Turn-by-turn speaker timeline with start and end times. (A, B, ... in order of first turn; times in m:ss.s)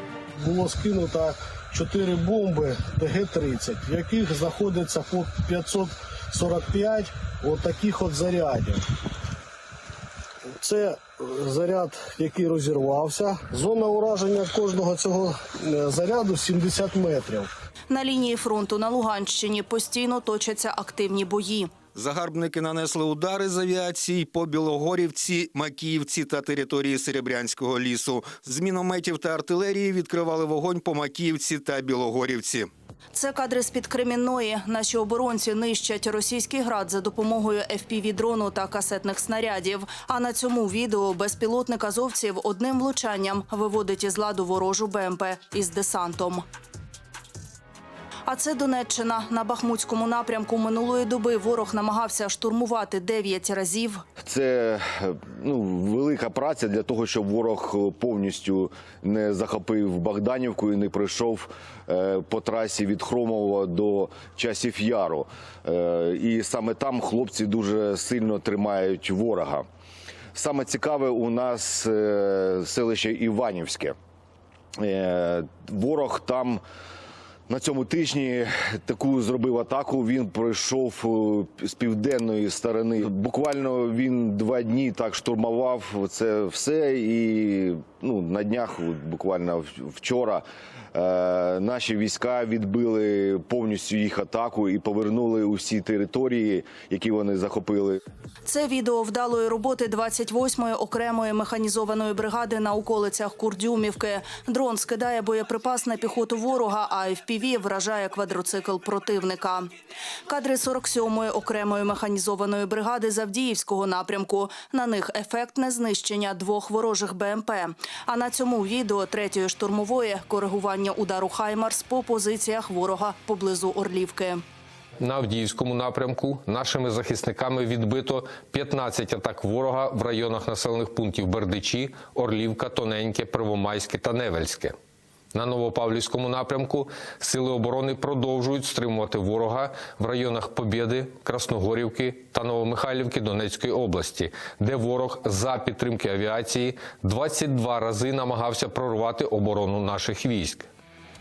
0:00.4-0:08.8 A
0:10.6-0:17.5 A
0:17.9-0:21.7 B
0:21.9-0:32.7 C
0:33.1-0:46.4 B
0:48.3-0:54.0 B
0:54.2-1:09.6 D
1:10.3-1:13.9 D
1:14.8-1:16.6 D
1:17.5-1:38.0 D
1:38.4-1:49.6 B
1:50.3-2:04.4 B
2:05.0-2:14.7 E
2:15.3-2:30.7 E